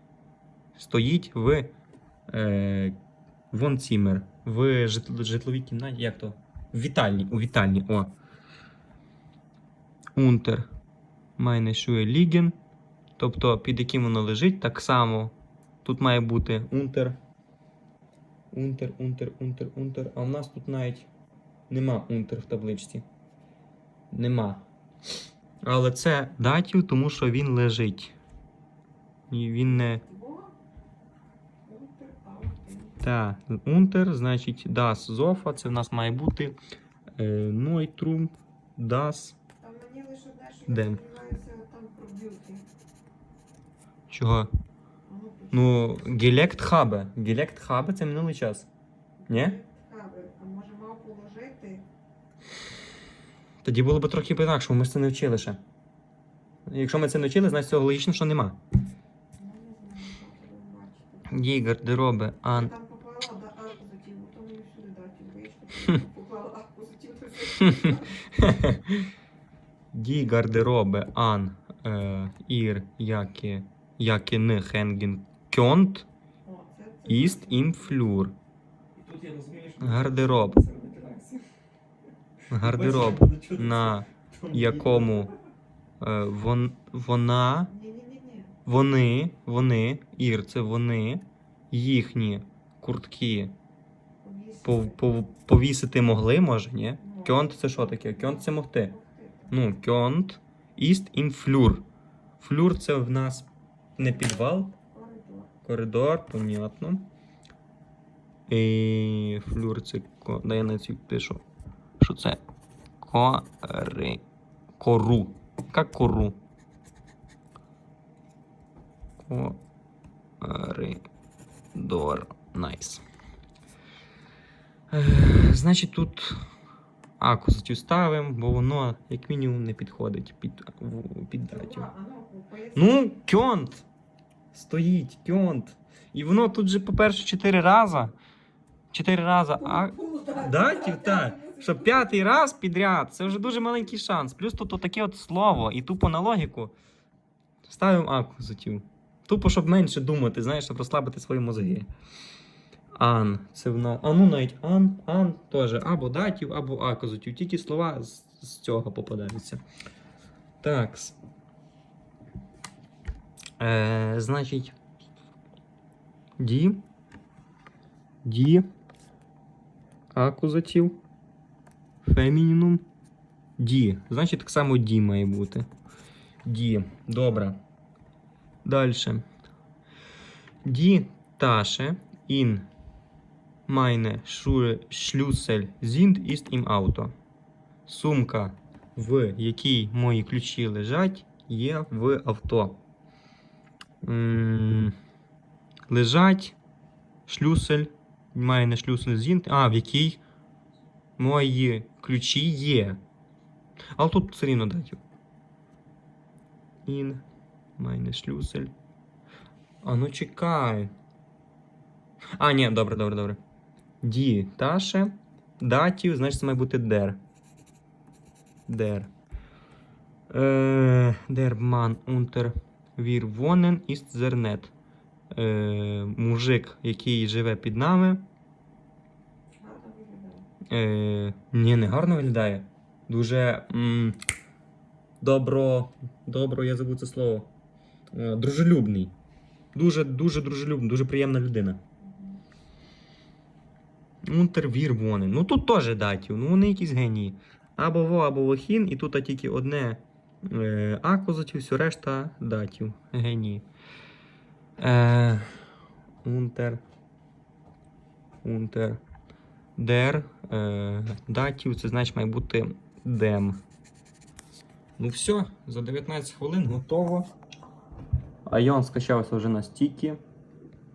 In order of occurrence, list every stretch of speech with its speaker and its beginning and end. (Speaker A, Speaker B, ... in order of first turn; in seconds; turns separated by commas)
Speaker A: 0.8-1.7, Speaker A: 2.3-3.0, Speaker A: 3.5-8.1, Speaker A: 10.2-10.7, Speaker A: 11.4-12.6, Speaker A: 13.2-17.2, Speaker A: 18.5-21.1, Speaker A: 21.7-23.1, Speaker A: 24.1-24.6, Speaker A: 25.6-28.1, Speaker A: 29.3-30.0, Speaker B: 29.6-30.6, Speaker B: 31.6-33.0, Speaker A: 33.0-36.6, Speaker A: 37.2-39.4, Speaker B: 39.6-42.7, Speaker A: 40.7-41.0, Speaker A: 44.1-44.5, Speaker B: 45.1-45.9, Speaker A: 45.5-48.7, Speaker B: 49.2-51.9, Speaker A: 49.3-49.6, Speaker A: 53.6-55.6, Speaker A: 56.7-58.6, Speaker B: 59.4-61.6, Speaker A: 61.3-62.7, Speaker B: 62.5-68.3, Speaker A: 67.6-69.1, Speaker A: 69.9-76.1, Speaker B: 76.5-78.0, Speaker A: 77.1-78.3, Speaker C: 79.0-81.5, Speaker A: 79.8-80.7, Speaker A: 82.5-85.3, Speaker C: 82.6-85.2, Speaker A: 86.0-87.7, Speaker B: 87.7-88.5, Speaker A: 88.7-93.5, Speaker B: 94.2-95.0, Speaker A: 94.6-98.9, Speaker B: 97.0-99.5, Speaker A: 99.5-101.9, Speaker A: 102.4-104.8, Speaker B: 104.0-105.5, Speaker A: 105.6-107.1, Speaker A: 108.5-111.5, Speaker A: 112.0-112.4, Speaker A: 113.0-114.2, Speaker A: 114.8-116.4, Speaker A: 119.2-119.6, Speaker A: 120.4-121.0, Speaker A: 121.7-123.0, Speaker A: 124.9-126.4, Speaker A: 127.2-131.9, Speaker B: 131.5-133.1, Speaker A: 132.8-133.9, Speaker A: 134.5-138.1, Speaker A: 138.9-146.8, Speaker B: 139.6-142.5, Speaker A: 147.6-151.9, Speaker A: 152.9-159.6, Speaker A: 160.6-161.2, Speaker A: 163.6-164.7, Speaker A: 166.4-166.8, Speaker A: 168.2-168.6, Speaker A: 170.1-171.0, Speaker A: 172.0-172.9, Speaker A: 173.6-175.7, Speaker A: 176.4-177.6, Speaker A: 178.6-179.2, Speaker A: 180.6-182.7, Speaker A: 183.7-187.1, Speaker A: 187.9-192.8, Speaker A: 194.0-194.9, Speaker A: 195.9-196.6, Speaker A: 197.3-200.2, Speaker A: 201.2-203.0, Speaker A: 204.0-205.0, Speaker A: 206.9-207.2, Speaker A: 207.8-208.7, Speaker A: 209.8-210.9, Speaker A: 212.4-213.4, Speaker A: 214.0-217.2, Speaker A: 218.7-219.1, Speaker A: 220.3-224.7, Speaker A: 225.3-228.2, Speaker B: 229.6-230.5, Speaker A: 230.7-234.2, Speaker A: 235.2-237.5, Speaker A: 238.1-239.1, Speaker A: 239.7-241.8, Speaker B: 242.0-242.4, Speaker A: 244.3-253.7, Speaker A: 254.8-255.5, Speaker A: 256.2-256.8, Speaker A: 258.4-259.0, Speaker A: 259.8-263.6, Speaker A: 265.0-267.3, Speaker A: 268.5-270.2